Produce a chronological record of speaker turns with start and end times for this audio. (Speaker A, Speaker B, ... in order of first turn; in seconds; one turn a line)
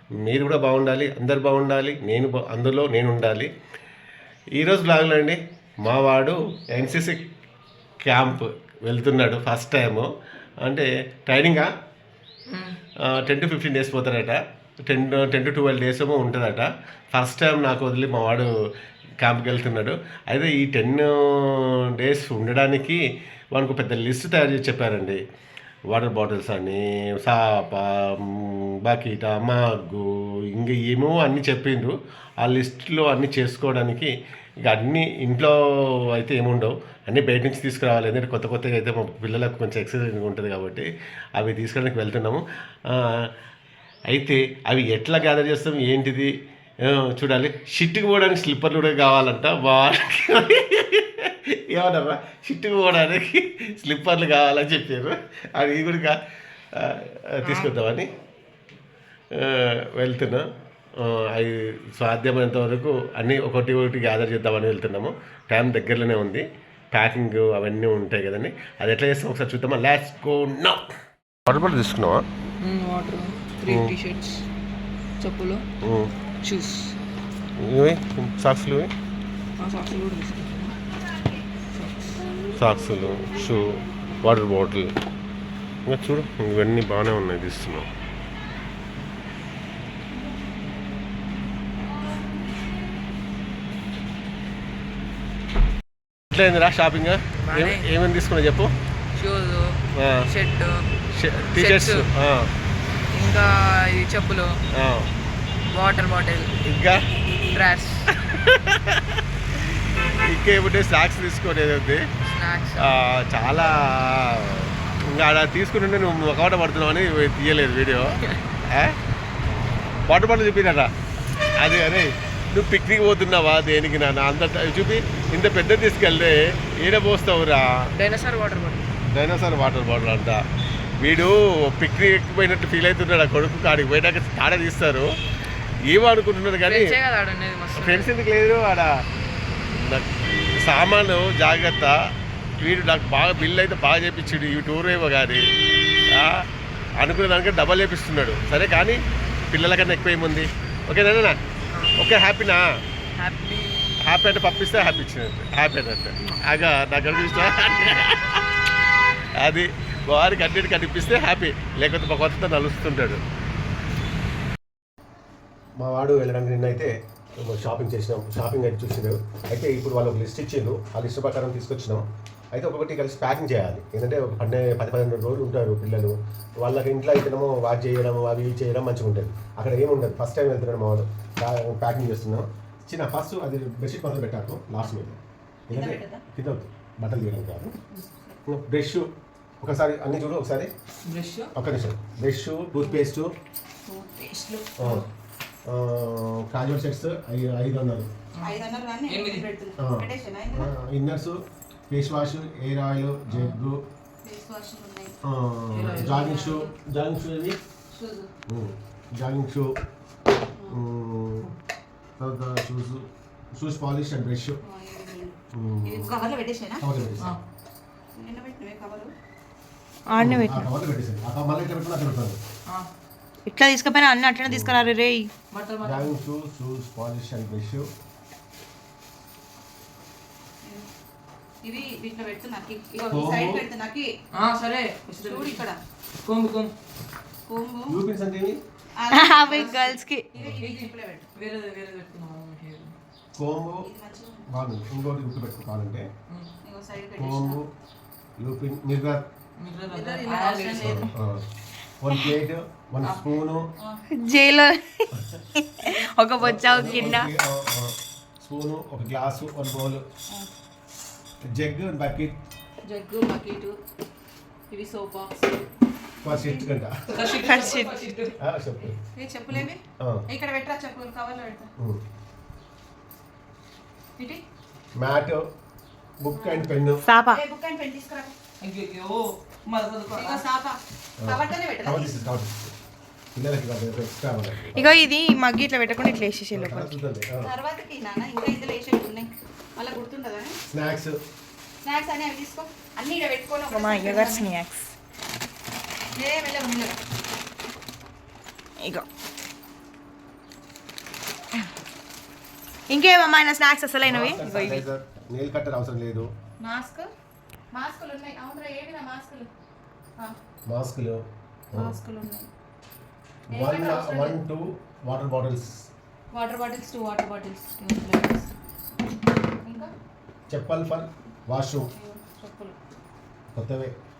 Speaker A: 0.2-3.5
Speaker A: 4.5-7.2
Speaker A: 8.0-10.1
Speaker A: 10.6-11.7
Speaker B: 12.5-12.8
Speaker A: 13.0-18.5
Speaker A: 19.2-23.0
Speaker A: 23.5-25.2
Speaker A: 25.9-34.1
Speaker A: 34.6-35.5
Speaker A: 36.1-43.3
Speaker A: 44.1-46.3
Speaker A: 46.8-56.2
Speaker A: 56.7-58.1
Speaker B: 57.4-57.7
Speaker A: 59.3-60.4
Speaker A: 61.0-70.8
Speaker A: 71.5-72.2
Speaker B: 72.6-74.4
Speaker A: 73.7-73.9
Speaker B: 75.2-75.6
Speaker A: 75.8-76.1
Speaker B: 76.4-77.0
Speaker A: 77.6-78.9
Speaker B: 79.6-80.7
Speaker B: 81.7-82.3
Speaker A: 82.5-84.9
Speaker A: 85.8-87.9
Speaker A: 96.3-98.7
Speaker B: 97.4-97.9
Speaker B: 99.1-100.9
Speaker A: 100.0-100.3
Speaker A: 101.1-102.5
Speaker B: 101.5-102.1
Speaker B: 103.1-104.6
Speaker A: 104.7-105.1
Speaker B: 105.7-106.5
Speaker A: 106.6-107.0
Speaker B: 107.5-108.2
Speaker A: 108.3-109.2
Speaker A: 110.2-112.0
Speaker B: 112.2-113.0
Speaker A: 112.8-119.0
Speaker A: 120.1-120.9
Speaker A: 121.6-127.7
Speaker B: 127.9-128.9
Speaker A: 129.1-130.4
Speaker A: 131.0-135.1
Speaker A: 135.8-136.9
Speaker B: 136.6-138.1
Speaker A: 137.7-138.9
Speaker A: 139.7-142.0
Speaker A: 142.6-145.5
Speaker A: 146.1-146.5
Speaker A: 147.0-151.4
Speaker B: 151.7-152.0
Speaker A: 151.9-152.8
Speaker B: 153.2-154.1
Speaker A: 154.0-158.5
Speaker A: 159.4-163.2
Speaker A: 165.8-187.7
Speaker C: 185.7-186.2
Speaker C: 187.9-188.4
Speaker A: 188.5-189.1
Speaker A: 189.6-190.7
Speaker B: 191.0-191.5
Speaker A: 191.5-193.3
Speaker C: 192.8-193.1
Speaker C: 193.8-195.0
Speaker A: 194.8-195.1
Speaker A: 195.7-198.1
Speaker B: 198.3-199.5
Speaker C: 198.4-200.7
Speaker A: 199.8-203.8
Speaker B: 203.3-203.6
Speaker C: 204.2-205.2
Speaker A: 205.2-207.6
Speaker B: 205.7-206.6
Speaker C: 206.0-206.7
Speaker C: 207.9-208.3
Speaker A: 208.5-209.8
Speaker C: 210.5-210.8
Speaker A: 210.7-211.5
Speaker A: 212.2-214.6
Speaker C: 214.6-216.8
Speaker A: 215.5-216.1
Speaker A: 216.8-217.3
Speaker C: 218.2-219.1
Speaker D: 220.1-220.7
Speaker A: 220.2-222.4
Speaker D: 223.5-225.3
Speaker A: 224.4-224.8
Speaker B: 225.5-226.2
Speaker A: 225.8-227.9
Speaker C: 231.6-234.1
Speaker A: 233.1-233.6
Speaker B: 234.3-235.6
Speaker C: 235.2-235.8
Speaker B: 236.2-236.7
Speaker C: 237.5-238.0
Speaker A: 237.9-238.6
Speaker C: 239.0-241.3
Speaker D: 239.1-240.3
Speaker B: 239.5-239.8
Speaker A: 240.3-240.6
Speaker B: 240.6-242.9
Speaker A: 243.3-243.9
Speaker C: 243.8-244.5
Speaker A: 244.5-246.1
Speaker C: 246.6-247.6
Speaker A: 247.2-247.7
Speaker A: 248.4-249.3
Speaker B: 249.6-251.1
Speaker C: 249.9-251.1
Speaker A: 250.8-251.4
Speaker A: 252.0-253.7
Speaker C: 253.8-254.0
Speaker D: 254.1-257.3
Speaker A: 255.1-255.4
Speaker A: 256.4-260.0
Speaker A: 261.5-262.4
Speaker C: 262.9-263.8
Speaker C: 264.7-266.7
Speaker A: 266.2-266.9
Speaker B: 267.1-268.4
Speaker C: 267.3-267.7
Speaker D: 267.4-267.9
Speaker A: 268.4-269.0
Speaker C: 269.1-271.7
Speaker A: 269.5-270.2
Speaker C: 274.2-274.4
Speaker A: 274.9-275.5
Speaker A: 276.2-277.1
Speaker C: 276.3-276.7
Speaker D: 277.0-277.4
Speaker C: 277.3-278.3
Speaker B: 278.6-280.4
Speaker C: 280.1-282.2
Speaker A: 281.2-282.7
Speaker A: 283.3-285.0
Speaker D: 284.8-286.9
Speaker A: 286.5-287.5
Speaker C: 287.4-290.6
Speaker A: 290.7-291.2
Speaker C: 291.8-294.5
Speaker D: 293.7-294.9
Speaker C: 296.1-297.0
Speaker D: 302.9-304.8
Speaker A: 304.0-306.3
Speaker C: 306.6-307.1
Speaker C: 307.7-309.5
Speaker A: 310.7-311.2
Speaker C: 311.7-312.5
Speaker A: 313.5-315.8
Speaker C: 313.5-314.4
Speaker C: 316.3-318.5
Speaker C: 319.5-319.9
Speaker A: 320.5-321.9
Speaker C: 321.8-322.8
Speaker A: 323.5-323.9